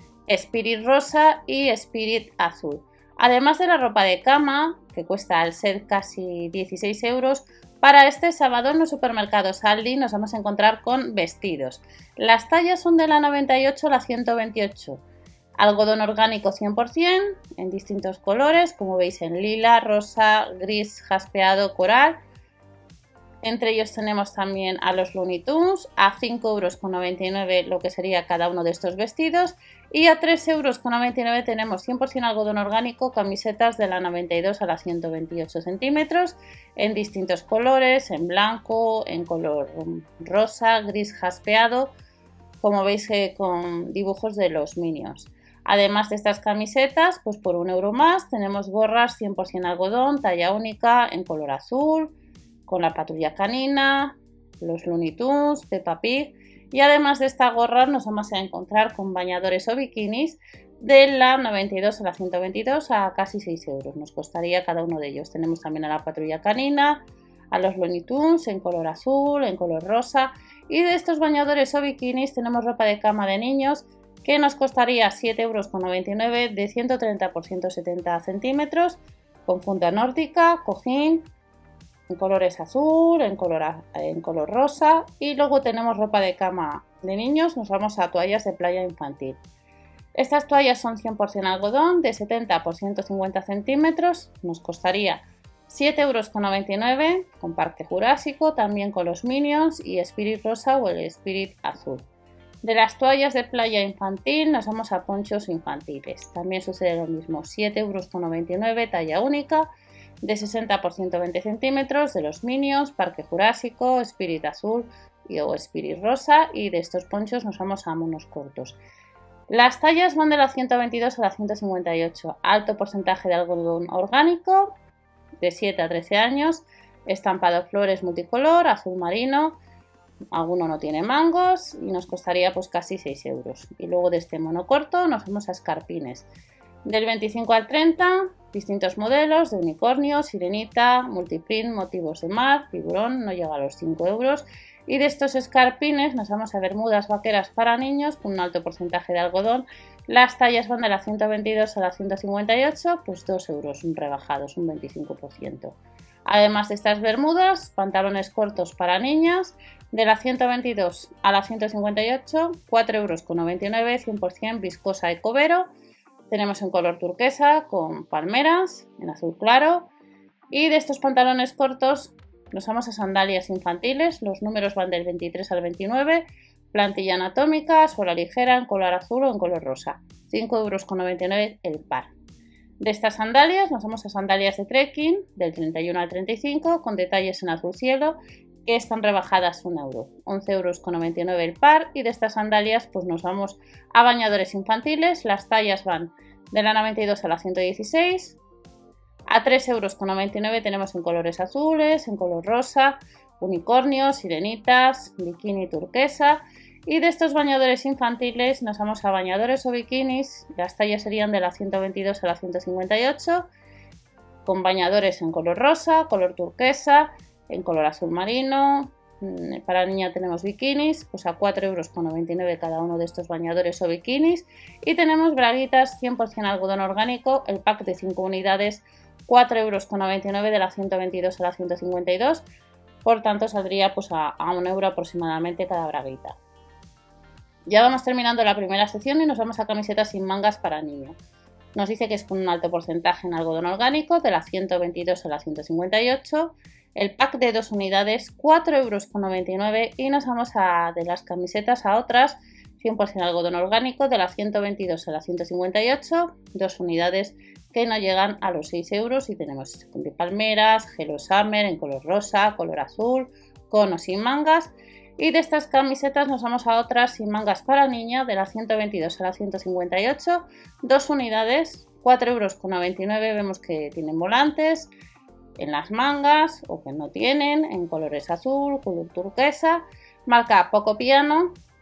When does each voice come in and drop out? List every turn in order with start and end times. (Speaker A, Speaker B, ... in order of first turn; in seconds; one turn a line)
Speaker A: 0.3-15.0
Speaker A: 15.6-22.2
Speaker A: 23.4-41.9
Speaker A: 42.6-52.1
Speaker A: 52.6-81.3
Speaker A: 82.1-89.4
Speaker A: 90.1-102.0
Speaker A: 102.6-109.7
Speaker A: 110.2-118.8
Speaker A: 119.5-124.7
Speaker A: 125.4-129.6
Speaker A: 130.3-136.3
Speaker A: 136.8-165.7
Speaker A: 166.3-169.9
Speaker A: 170.5-182.1
Speaker A: 182.8-198.4
Speaker A: 199.3-213.4
Speaker A: 214.4-232.4
Speaker A: 233.0-236.3
Speaker A: 237.7-241.2
Speaker A: 241.7-274.9
Speaker A: 275.6-281.6